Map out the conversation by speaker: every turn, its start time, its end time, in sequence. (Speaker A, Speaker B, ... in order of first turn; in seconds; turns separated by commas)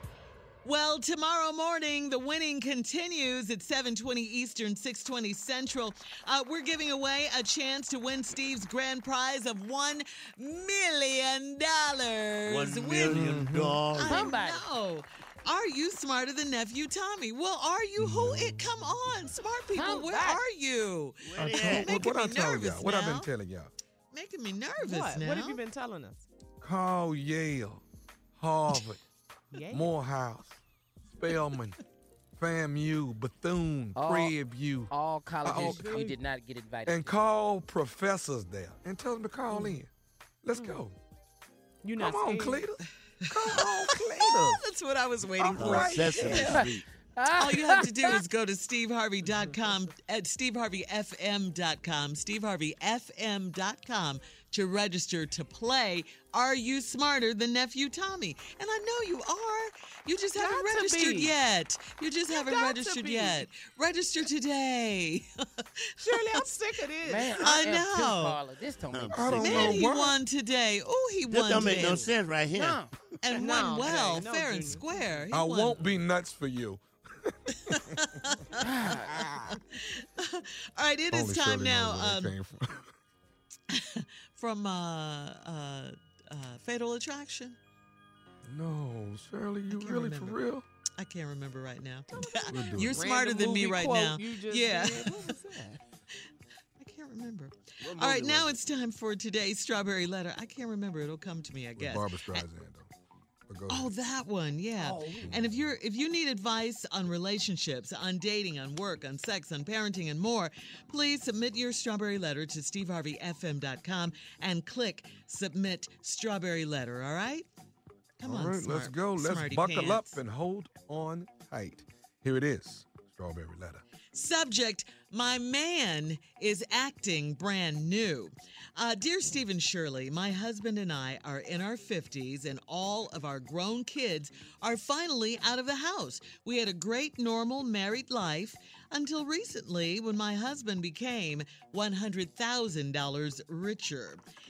Speaker A: 0.6-13.3, Speaker B: 12.5-14.3, Speaker C: 13.0-13.8, Speaker A: 13.9-23.3, Speaker D: 14.1-14.6, Speaker C: 18.0-18.8, Speaker D: 19.7-20.4, Speaker B: 21.2-22.0, Speaker C: 21.4-23.7, Speaker A: 24.1-25.6, Speaker E: 24.8-26.3, Speaker C: 26.6-27.8, Speaker C: 28.4-29.0, Speaker E: 29.5-30.0, Speaker C: 29.7-30.6, Speaker C: 31.1-31.8, Speaker C: 32.4-34.9, Speaker D: 34.0-34.3, Speaker D: 34.9-37.1, Speaker C: 35.4-36.0, Speaker E: 35.5-36.2, Speaker C: 36.9-39.9, Speaker E: 39.5-39.8, Speaker C: 40.4-41.0, Speaker E: 40.5-40.9, Speaker E: 41.8-42.7, Speaker C: 42.0-44.6, Speaker A: 43.2-46.6, Speaker C: 45.4-46.7, Speaker B: 45.5-46.9, Speaker D: 47.2-48.2, Speaker A: 47.3-66.5, Speaker E: 49.3-49.6, Speaker E: 60.4-61.4, Speaker E: 62.3-63.5, Speaker E: 66.0-67.6, Speaker D: 67.0-69.7, Speaker A: 67.4-68.4, Speaker B: 68.9-69.8, Speaker C: 69.1-70.2, Speaker A: 69.4-72.1, Speaker B: 71.3-72.8, Speaker E: 71.5-72.1, Speaker D: 72.5-72.9, Speaker A: 73.2-75.8, Speaker E: 73.3-75.2, Speaker C: 75.3-77.8, Speaker A: 77.7-78.5, Speaker D: 78.6-79.1, Speaker C: 79.1-79.6, Speaker A: 80.0-82.3, Speaker C: 81.1-83.0, Speaker A: 83.7-87.6, Speaker C: 88.5-90.7, Speaker A: 89.7-90.4, Speaker A: 91.0-95.3, Speaker E: 92.2-95.8, Speaker C: 92.5-93.0, Speaker A: 96.8-102.5, Speaker B: 97.8-98.6, Speaker C: 101.8-102.9, Speaker C: 103.5-103.9, Speaker A: 103.7-117.5, Speaker C: 105.2-105.8, Speaker A: 118.2-120.2, Speaker C: 118.2-123.8, Speaker A: 124.1-144.2